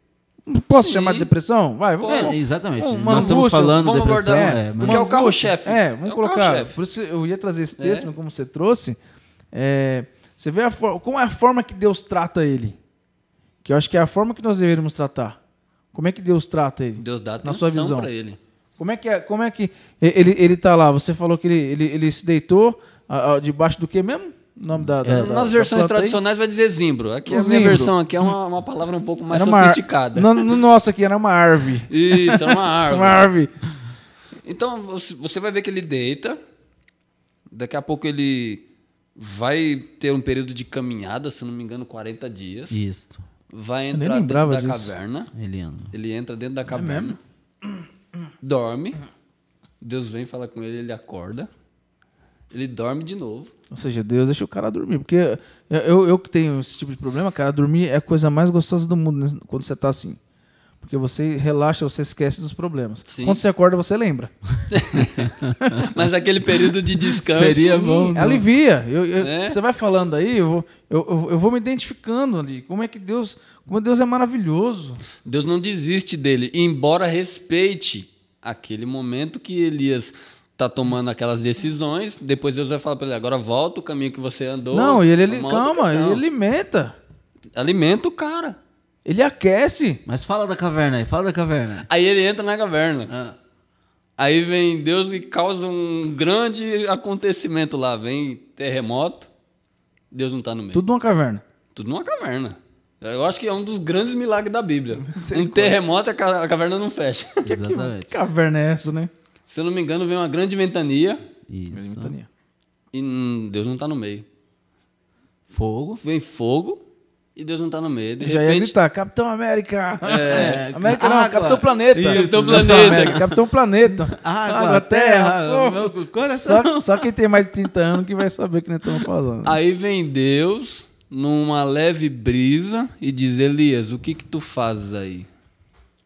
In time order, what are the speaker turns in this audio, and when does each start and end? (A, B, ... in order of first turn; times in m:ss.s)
0:00.4-0:09.0 A
0:00.7-0:01.3 B
0:02.0-0:02.3 B
0:02.0-0:05.1 C
0:03.1-0:06.8 B
0:07.8-0:08.1 B
0:09.5-0:12.8 A
0:13.6-0:15.4 A
0:15.9-0:18.1 A
0:17.0-0:18.4 B
0:18.8-0:26.2 A
0:25.0-0:25.3 C
0:25.0-0:30.6 B
0:27.3-0:27.9 A
0:29.3-0:33.5 A
0:31.9-0:33.3 B
0:34.4-0:36.4 B
0:37.5-0:38.6 B
0:39.2-0:42.8 B
0:42.7-0:43.2 C
0:43.5-0:45.3 B
0:43.9-0:44.9 A
0:45.3-0:45.9 C
0:45.9-0:47.2 B
0:46.7-0:47.1 A
0:48.4-0:49.0 B
0:49.8-0:51.5 B
0:52.5-0:53.5 B
0:53.7-1:00.2 A
1:00.8-1:04.3 A
1:03.1-1:03.4 B
1:04.7-1:07.8 B
1:05.6-1:05.9 A
1:07.0-1:15.0 A
1:07.3-1:08.4 C
1:09.2-1:09.6 B
1:15.2-1:26.2 B
1:24.7-1:27.0 A
1:27.5-1:28.6 B
1:29.0-1:30.0 A
1:30.0-1:31.9 C
1:31.8-1:33.1 B
1:33.1-1:33.4 C
1:34.2-1:39.3 B
1:40.1-1:40.8 B
1:40.7-1:41.4 A
1:41.7-1:47.5 B
1:45.0-1:45.8 A
1:47.4-1:48.1 C
1:47.5-1:49.1 A
1:49.5-1:51.2 B
1:51.5-1:52.1 C
1:51.7-1:52.3 A
1:52.9-1:54.2 B
1:55.5-1:56.0 C
1:56.0-1:56.8 B
1:57.4-1:58.8 B
1:58.2-2:09.6 A
2:00.0-2:00.6 B
2:00.3-2:03.3 C
2:02.1-2:03.3 B
2:04.1-2:07.1 C
2:09.4-2:15.3 B